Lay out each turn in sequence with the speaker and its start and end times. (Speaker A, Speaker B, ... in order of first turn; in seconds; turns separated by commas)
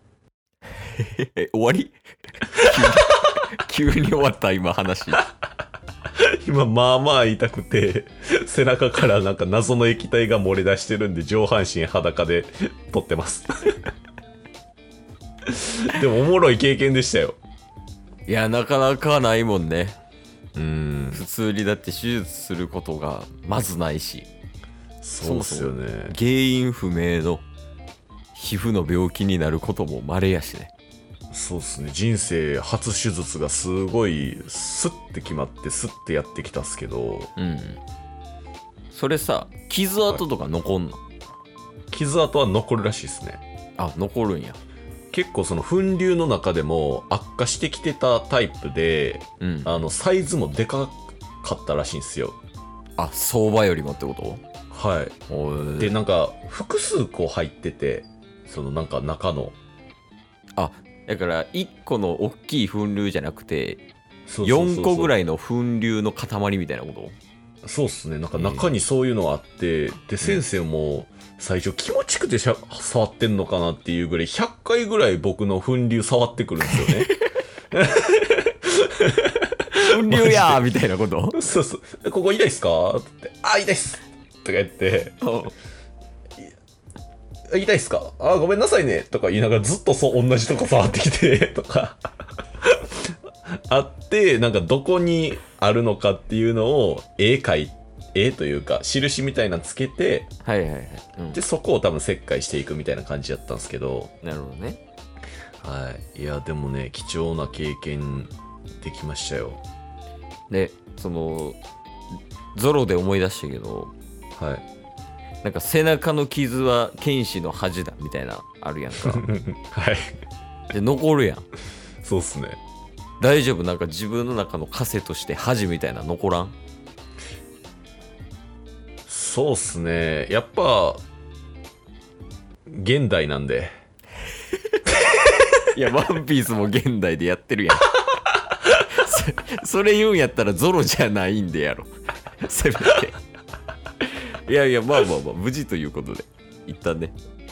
Speaker A: 0.9-5.3, Speaker B: 6.2-13.7, Speaker B: 15.5-17.4, Speaker A: 18.3-20.0, Speaker B: 20.5-21.2, Speaker A: 21.1-24.3, Speaker B: 25.0-26.1, Speaker A: 25.2-27.4, Speaker A: 28.3-30.7, Speaker B: 31.3-37.3, Speaker A: 37.4-37.8, Speaker A: 38.9-41.0, Speaker B: 41.9-43.4, Speaker A: 43.8-44.6, Speaker B: 45.1-52.4, Speaker A: 49.4-49.8, Speaker A: 53.0-54.4, Speaker B: 54.7-55.1, Speaker A: 55.3-56.0, Speaker B: 55.8-59.5, Speaker A: 60.6-63.8, Speaker B: 64.3-65.1, Speaker A: 64.4-67.2, Speaker B: 67.6-77.1, Speaker A: 68.3-68.7, Speaker A: 76.7-77.3, Speaker B: 77.7-80.6, Speaker A: 79.8-81.4, Speaker B: 81.3-85.2, Speaker A: 85.2-85.5, Speaker B: 87.5-92.0, Speaker B: 92.6-92.9, Speaker B: 93.7-100.3, Speaker A: 100.4-101.4, Speaker B: 101.3-104.1, Speaker A: 104.2-104.8, Speaker B: 105.6-109.6, Speaker A: 110.5-111.6, Speaker A: 112.5-113.9, Speaker B: 114.4-114.6, Speaker A: 115.4-119.2, Speaker B: 119.0-120.2, Speaker A: 120.7-121.5, Speaker B: 122.0-122.6, Speaker A: 123.2-126.5, Speaker B: 129.1-131.0, Speaker B: 132.7-133.7, Speaker A: 135.6-137.9, Speaker A: 138.7-143.2, Speaker A: 144.1-147.1